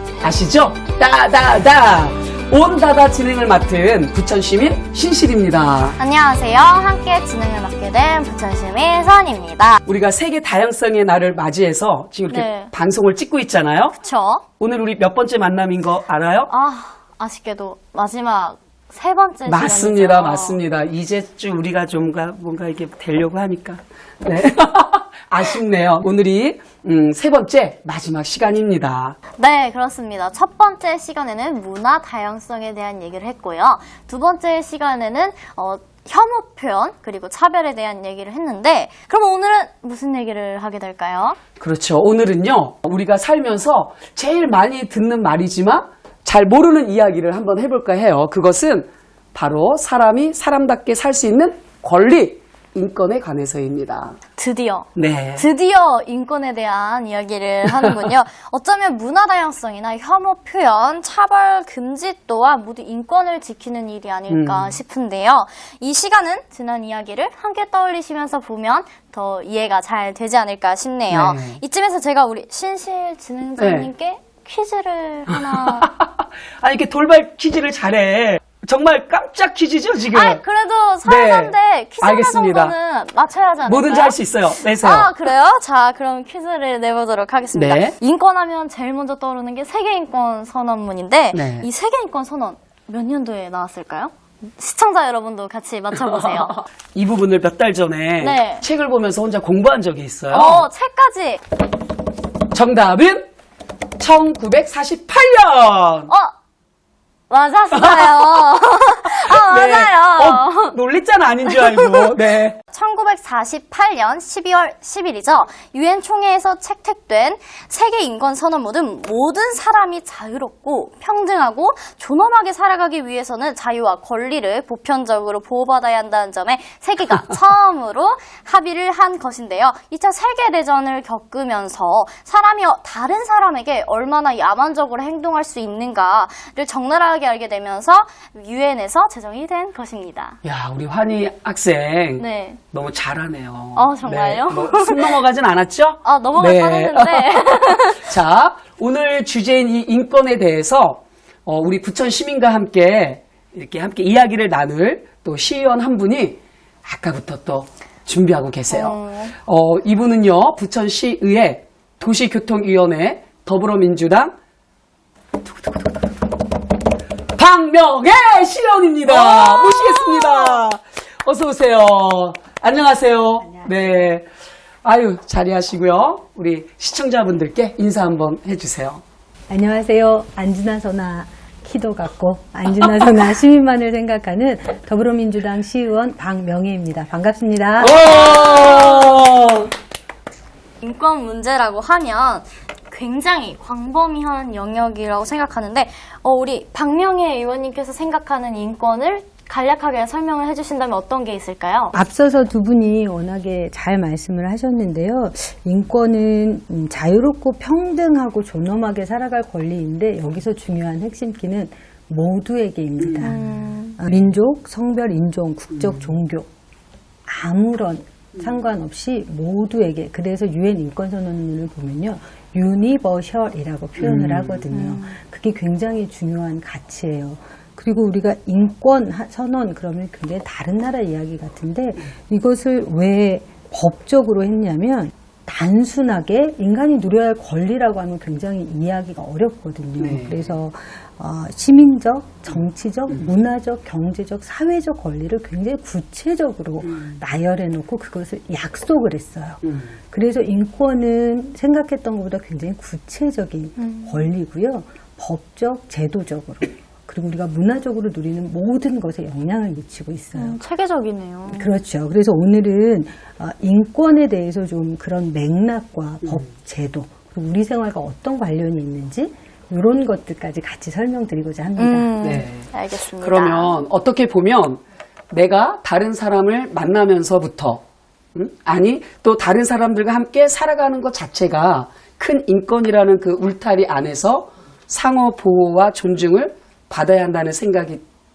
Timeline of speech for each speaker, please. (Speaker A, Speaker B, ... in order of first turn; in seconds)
Speaker A: 0.2-6.0, 9.8-13.9, 14.6-16.5, 19.4-29.2, 41.6-54.2, 54.9-55.5, 57.7-58.0, 64.3-64.8, 71.1-71.6, 73.6-73.9, 75.3-80.4, 81.0-82.8, 83.7-85.2, 87.5-87.9, 91.3-91.7, 96.2-100.7, 102.5-103.3, 104.0-106.1, 107.8-108.3, 109.1-112.6, 140.4-164.3, 167.3-174.3, 174.8-179.0, 187.8-189.7, 224.0-224.7, 240.0-240.5, 246.9-247.2, 272.2-272.7, 273.2-277.8, 278.3-288.0
Speaker B: 6.0-9.8, 12.3-12.7, 13.9-14.4, 16.5-20.6, 29.4-41.4, 54.4-75.9, 80.1-96.6, 98.2-98.6, 100.3-101.4, 107.3-110.7, 111.5-112.1, 112.7-140.4, 142.2-142.6, 143.7-145.2, 146.0-148.0, 158.7-159.3, 169.1-170.6, 187.9-189.2, 190.8-201.9, 213.2-214.0, 224.7-225.1, 253.8-254.2, 260.4-261.7, 271.8-273.8
Speaker C: 173.4-174.1, 179.5-187.9, 201.9-213.4, 214.0-216.5, 217.3-260.6, 261.5-272.2